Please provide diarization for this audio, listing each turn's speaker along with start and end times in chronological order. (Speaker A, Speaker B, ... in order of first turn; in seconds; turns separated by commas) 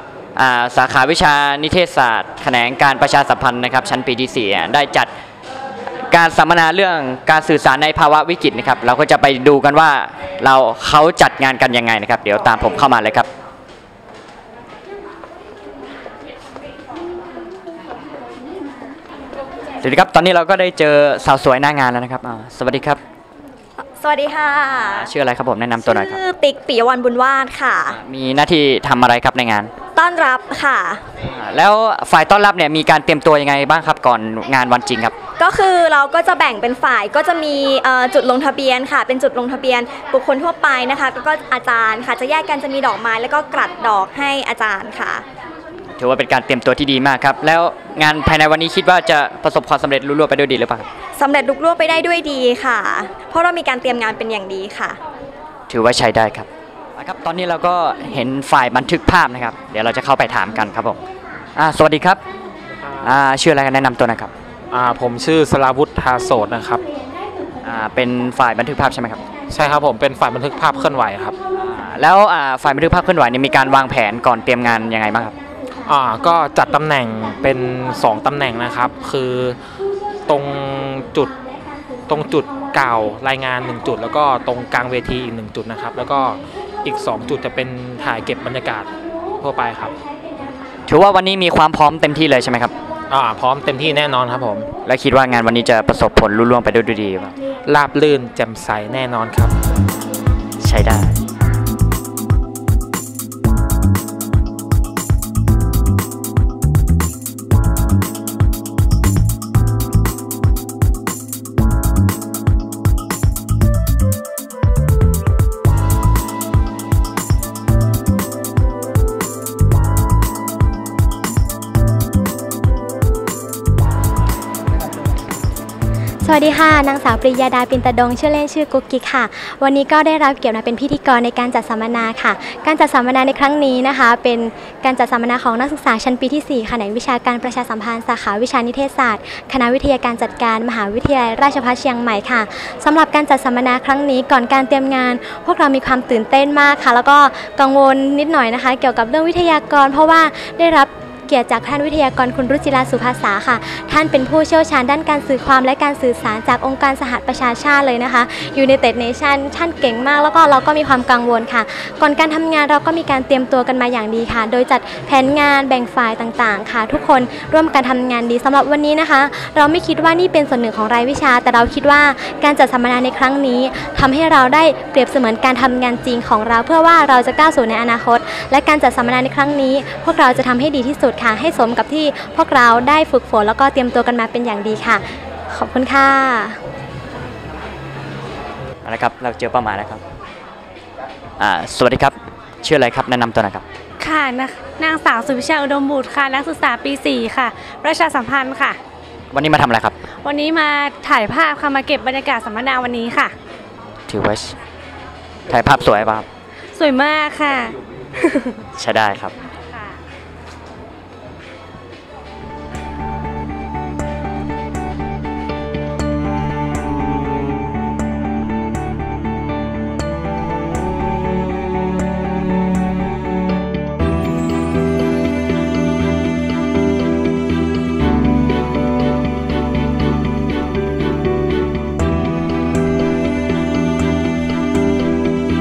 Speaker A: 0.4-5.1, Speaker A: 6.1-13.3, Speaker A: 19.8-23.0, Speaker B: 23.8-25.1, Speaker A: 24.9-26.2, Speaker B: 25.8-28.0, Speaker A: 27.9-29.7, Speaker B: 29.9-31.0, Speaker A: 31.2-35.1, Speaker B: 35.4-45.2, Speaker A: 46.0-50.9, Speaker B: 51.2-55.0, Speaker A: 55.7-61.0, Speaker A: 61.6-62.2, Speaker A: 63.0-64.3, Speaker C: 64.8-66.7, Speaker A: 67.6-69.2, Speaker C: 69.8-71.2, Speaker A: 71.5-75.3, Speaker C: 75.9-79.5, Speaker C: 80.3-81.2, Speaker C: 82.1-86.3, Speaker C: 86.8-88.9, Speaker C: 89.4-89.8, Speaker A: 90.9-92.7, Speaker C: 93.1-94.6, Speaker A: 94.8-97.3, Speaker C: 97.8-99.5, Speaker A: 100.6-101.2, Speaker D: 126.2-186.6, Speaker A: 188.8-190.0, Speaker A: 191.4-193.6, Speaker E: 194.0-198.8, Speaker A: 199.3-200.0, Speaker E: 200.2-203.3, Speaker A: 204.1-204.6, Speaker A: 205.5-206.3, Speaker E: 206.8-208.6, Speaker A: 208.8-209.3, Speaker E: 209.7-210.0